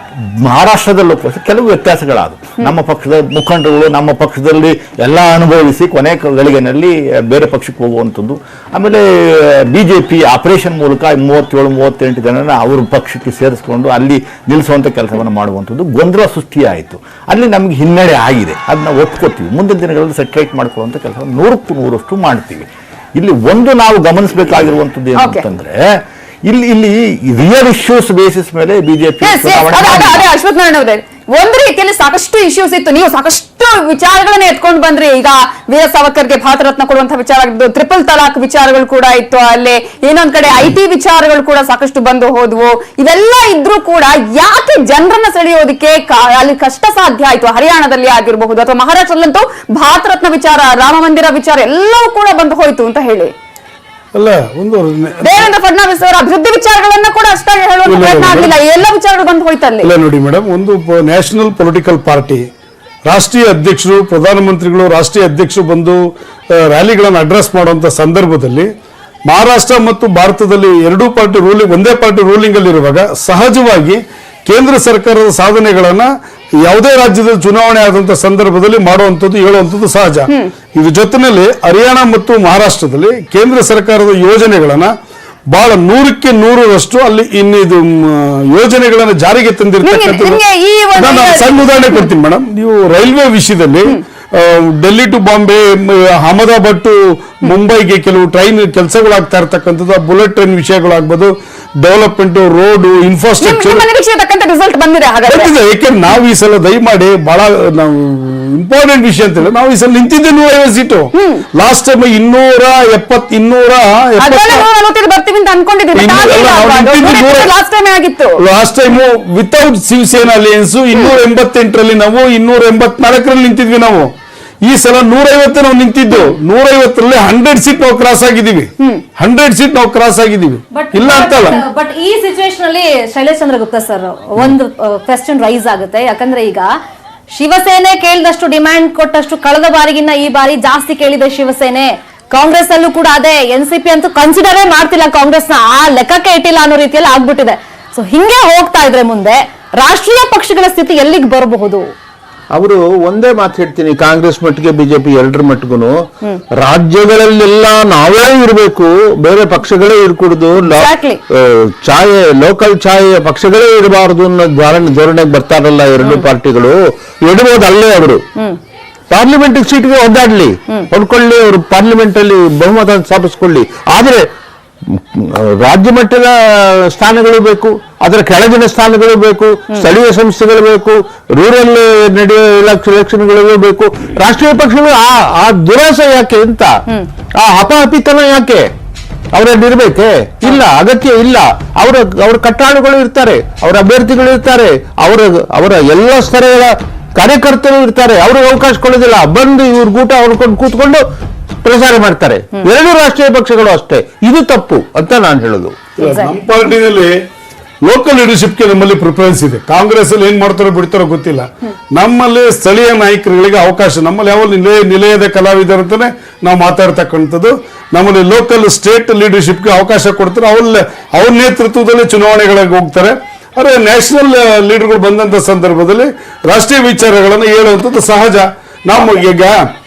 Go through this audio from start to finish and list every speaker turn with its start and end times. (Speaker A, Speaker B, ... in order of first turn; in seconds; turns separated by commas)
Speaker A: 0.4-30.2, Speaker B: 25.2-25.4, Speaker B: 29.2-53.3, Speaker C: 54.1-55.5, Speaker B: 55.2-59.9, Speaker C: 57.8-58.6, Speaker C: 59.8-62.5, Speaker C: 63.1-66.0, Speaker C: 66.5-68.7, Speaker C: 69.2-84.9, Speaker C: 85.5-90.4, Speaker B: 89.8-92.1, Speaker C: 91.0-103.8, Speaker B: 103.4-105.5, Speaker C: 105.3-114.7, Speaker B: 114.2-118.4, Speaker C: 115.9-117.5, Speaker C: 118.4-124.1, Speaker C: 124.7-131.6, Speaker D: 130.7-136.7, Speaker D: 137.3-151.9, Speaker E: 152.5-156.0, Speaker E: 156.5-168.2, Speaker D: 160.6-161.2, Speaker B: 166.0-166.3, Speaker E: 169.1-174.3, Speaker E: 174.9-186.8, Speaker E: 187.3-188.7, Speaker E: 189.3-201.0, Speaker E: 201.6-205.8, Speaker C: 206.0-207.2, Speaker D: 206.0-206.3, Speaker C: 207.8-229.6